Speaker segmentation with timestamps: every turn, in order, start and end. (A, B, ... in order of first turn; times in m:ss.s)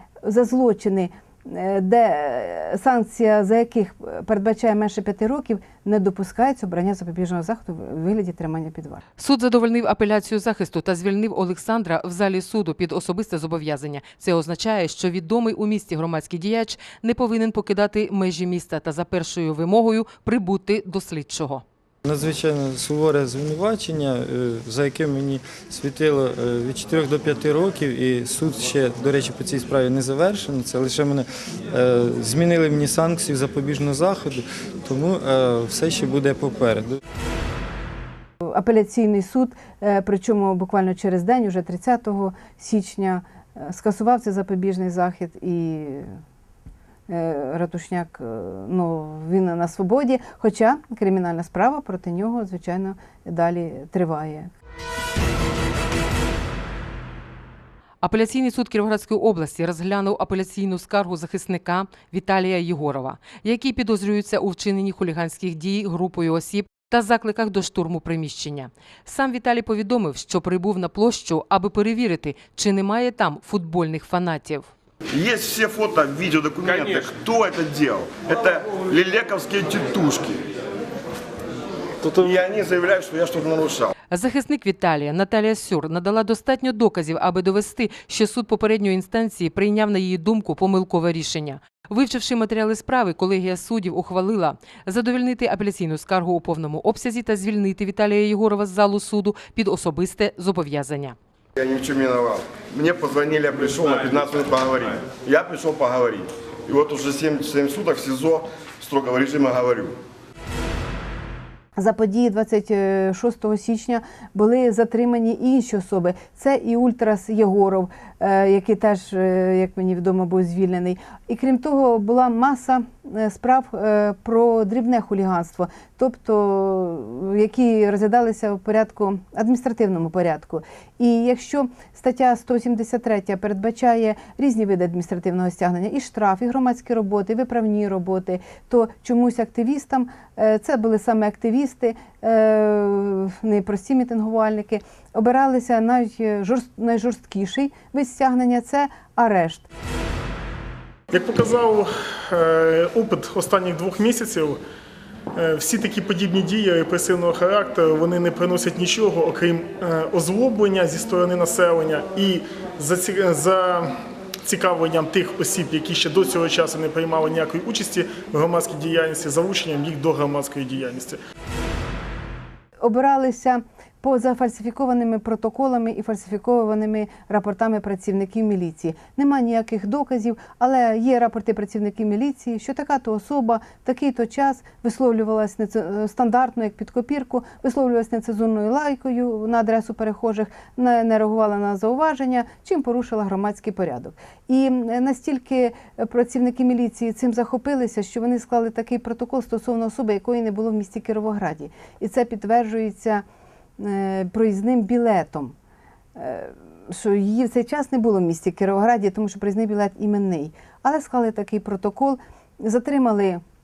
0:00.2-0:09.0 A
0:09.2-0:21.6 B
0:22.0-0:37.0 C
0:38.4-0:46.1 A
0:47.1-0:54.5 A
0:58.0-1:14.7 B
1:15.1-1:20.4 D
1:22.0-1:23.9 D
1:24.1-1:41.2 B
1:41.6-1:50.0 D
1:51.8-2:29.7 A
2:31.1-2:34.6 E
2:35.3-2:43.9 E
2:44.4-2:51.2 E
2:52.8-3:23.2 A
3:23.8-3:25.5 A
3:26.2-3:33.4 A